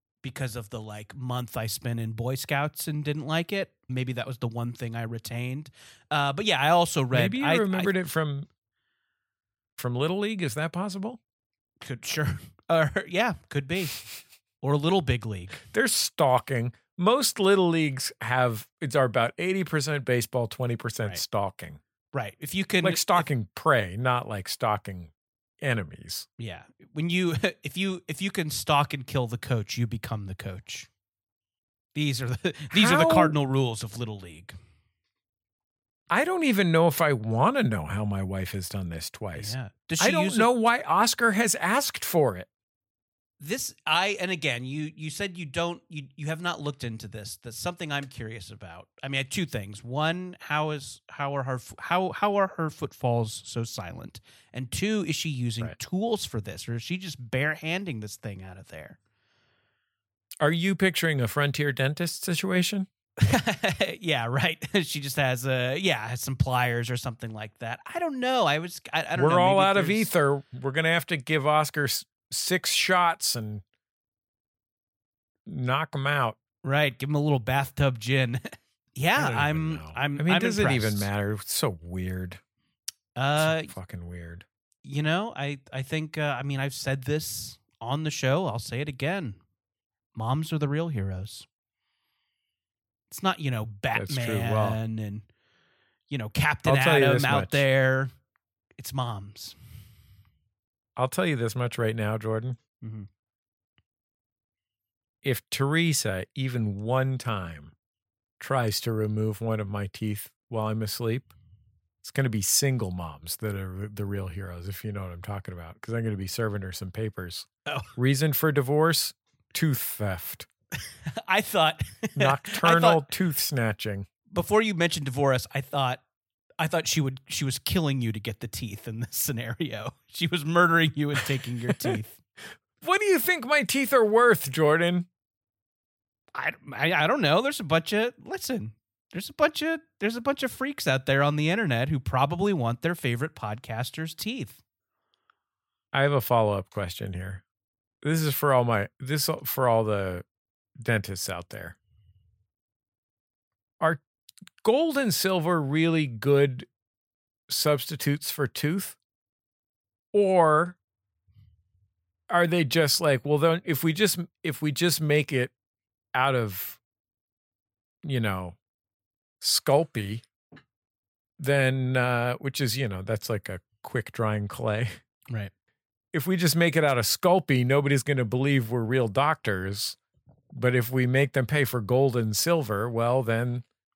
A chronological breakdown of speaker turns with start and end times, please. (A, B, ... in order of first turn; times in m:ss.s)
0:00.2-0:07.9 A
0:07.1-0:08.5 B
0:09.8-0:11.2 B
0:11.8-0:14.0 A
0:14.6-0:15.6 A
0:15.7-0:21.8 B
0:22.1-0:23.3 A
0:22.8-0:26.3 B
0:26.4-0:30.9 A
0:32.0-0:34.6 A
0:32.7-0:33.4 B
0:36.1-0:42.5 B
0:39.4-0:40.5 A
0:43.4-0:59.0 A
1:00.4-1:02.9 B
1:03.2-1:10.1 A
1:09.2-1:13.6 B
1:15.5-1:16.4 B
1:16.6-1:21.1 A
1:19.2-1:22.4 B
1:23.2-1:23.7 A
1:23.4-1:24.4 B
1:24.8-1:29.4 A
1:30.2-1:31.5 A
1:33.1-1:35.3 A
1:33.9-1:34.8 B
1:36.1-1:38.1 A
1:36.7-1:37.6 B
1:38.8-1:39.6 A
1:41.0-1:42.6 B
1:42.8-1:43.1 A
1:45.2-1:47.7 B
1:48.4-1:51.3 B
1:52.0-2:00.5 B
1:57.7-1:57.9 A
2:01.2-2:03.1 A
2:02.2-2:04.1 B
2:04.3-2:06.0 A
2:06.6-2:12.2 A
2:12.8-2:15.1 B
2:16.4-2:24.6 A
2:25.9-2:27.4 B
2:28.0-2:30.2 B
2:30.8-2:31.8 B
2:34.6-2:36.7 B
2:37.5-2:39.0 B
2:40.1-2:40.8 B
2:42.3-2:45.5 B
2:46.1-2:46.8 B
2:48.0-2:48.6 B
2:49.4-2:50.2 B
2:51.4-2:55.0 B
2:56.1-3:00.0 B
3:00.5-3:03.6 B